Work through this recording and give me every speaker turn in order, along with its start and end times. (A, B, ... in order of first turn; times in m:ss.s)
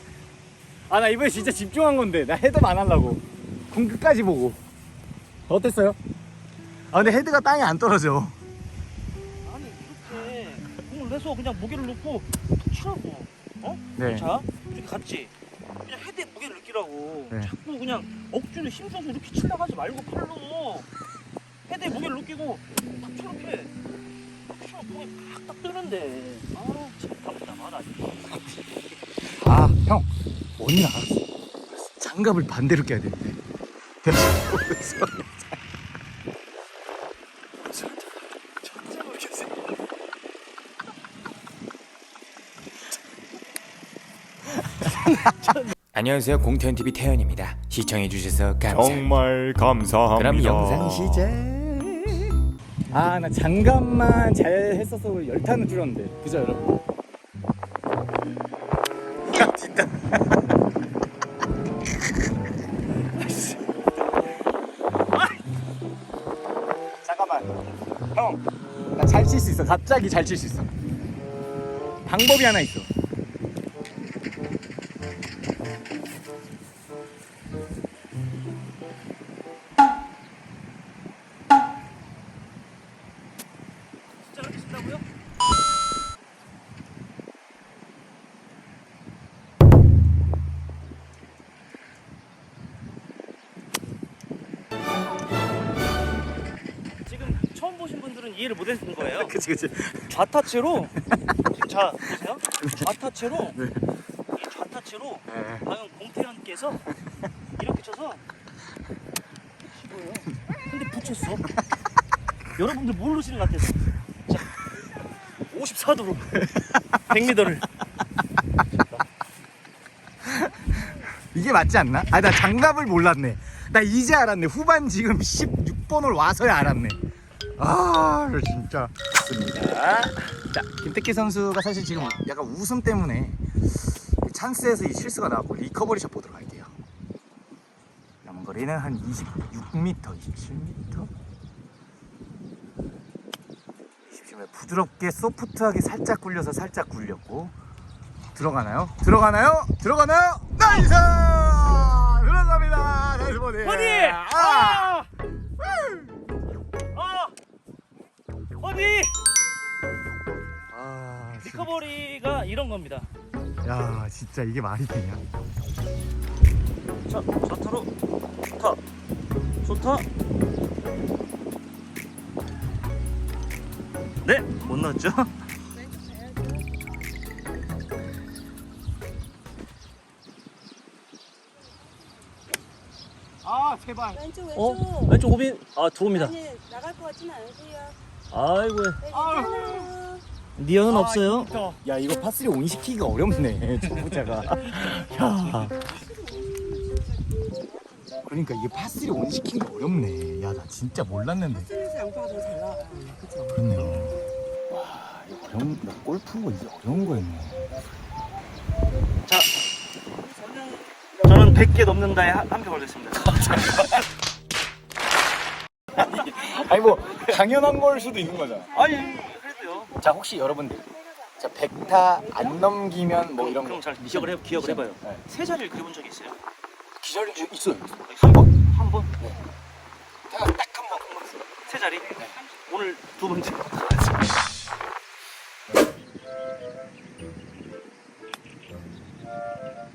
0:00.9-0:04.6 A
0:05.5-0:06.0 A
0:06.9-0:08.4 A
0:09.4-0:20.9 B
0:14.0-0:14.3 A
0:21.7-0:23.7 B
0:24.5-0:28.4 B
0:29.2-0:31.2 A
0:31.8-0:33.4 A
0:34.0-0:35.6 A
0:44.6-0:45.5 A
0:45.9-0:49.1 C
0:48.7-0:50.9 D
0:50.1-0:51.5 C
0:51.1-0:52.4 A
0:52.9-0:56.8 A
0:59.2-1:00.4 A
1:07.0-1:07.6 A
1:08.1-1:08.4 A
1:08.9-1:10.7 A
1:12.0-1:12.9 A
1:24.3-1:25.0 B
1:37.0-1:39.3 B
1:39.0-1:40.2 A
1:40.1-1:43.6 B
1:42.6-1:43.8 A
1:44.3-1:46.9 B
1:45.3-1:45.6 A
1:47.6-1:48.2 B
1:49.9-1:51.5 B
1:52.5-1:54.6 B
1:55.4-1:56.5 B
1:56.5-1:57.0 A
1:57.0-1:57.6 B
2:00.2-2:07.0 A
2:07.6-2:16.7 A
2:18.2-2:21.1 A
2:24.1-2:27.5 A
2:28.3-2:35.0 A
2:33.6-2:35.0 B
2:35.6-2:36.1 A
2:36.9-2:37.3 B
2:38.6-2:39.1 B
2:40.7-2:41.8 A
2:41.4-2:43.1 B
2:43.6-2:45.2 A
2:47.1-2:47.9 B
2:48.5-2:48.8 B
2:49.6-2:50.1 B
2:54.2-2:55.3 B
3:03.4-3:04.3 A
3:04.5-3:06.5 B
3:06.4-3:08.0 E
3:08.3-3:09.1 B
3:09.1-3:10.0 A
3:10.6-3:11.6 B
3:10.9-3:15.9 A
3:16.3-3:17.1 E
3:18.2-3:21.8 A
3:21.9-3:23.3 E
3:23.3-3:27.7 A
3:31.2-3:33.7 B
3:36.0-3:38.7 A
3:38.7-3:39.9 B
3:40.0-3:45.2 A
3:43.4-3:46.4 B
3:47.0-3:48.5 A
3:48.0-3:49.1 B
3:50.3-3:51.4 A
3:51.6-3:54.1 B